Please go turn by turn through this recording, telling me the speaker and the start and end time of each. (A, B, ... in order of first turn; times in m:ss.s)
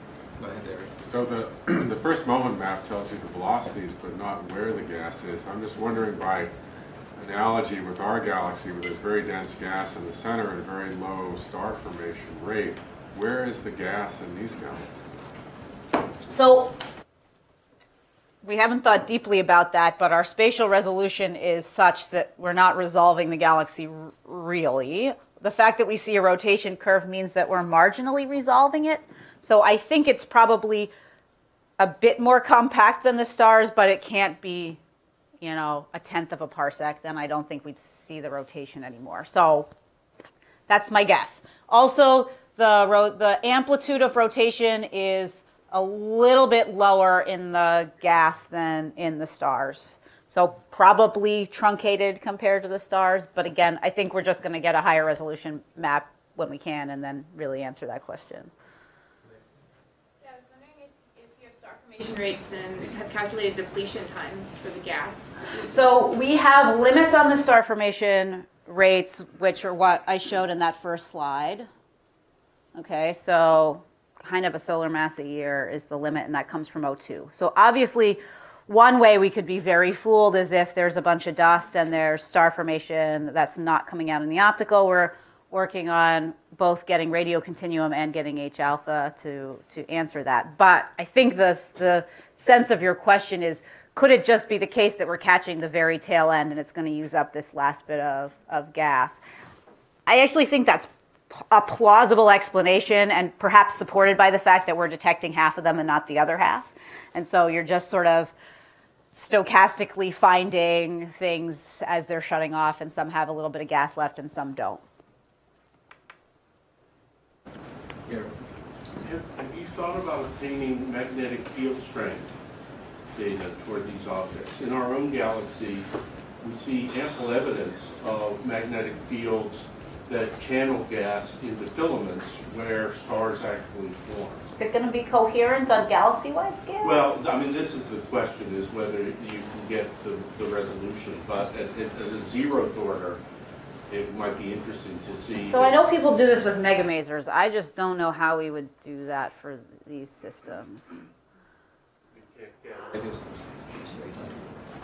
0:00.4-0:00.9 A
0:01.0-0:06.5 B
0:07.2-0:15.0 B
0:16.3-0:16.8 C
0:18.4-0:30.9 C
0:31.8-0:34.8 C
0:35.4-0:39.7 C
0:40.7-0:58.5 C
1:00.2-1:05.5 D
1:05.6-1:11.7 C
1:12.8-1:39.2 C
1:40.1-1:48.3 C
1:49.1-1:54.8 C
1:59.0-2:02.4 E
2:03.2-2:05.9 E
2:06.4-2:14.5 E
2:14.6-2:17.0 C
2:16.8-2:23.2 E
2:23.9-2:25.8 E
2:25.5-2:31.0 C
2:32.1-2:32.9 E
2:32.9-2:34.5 A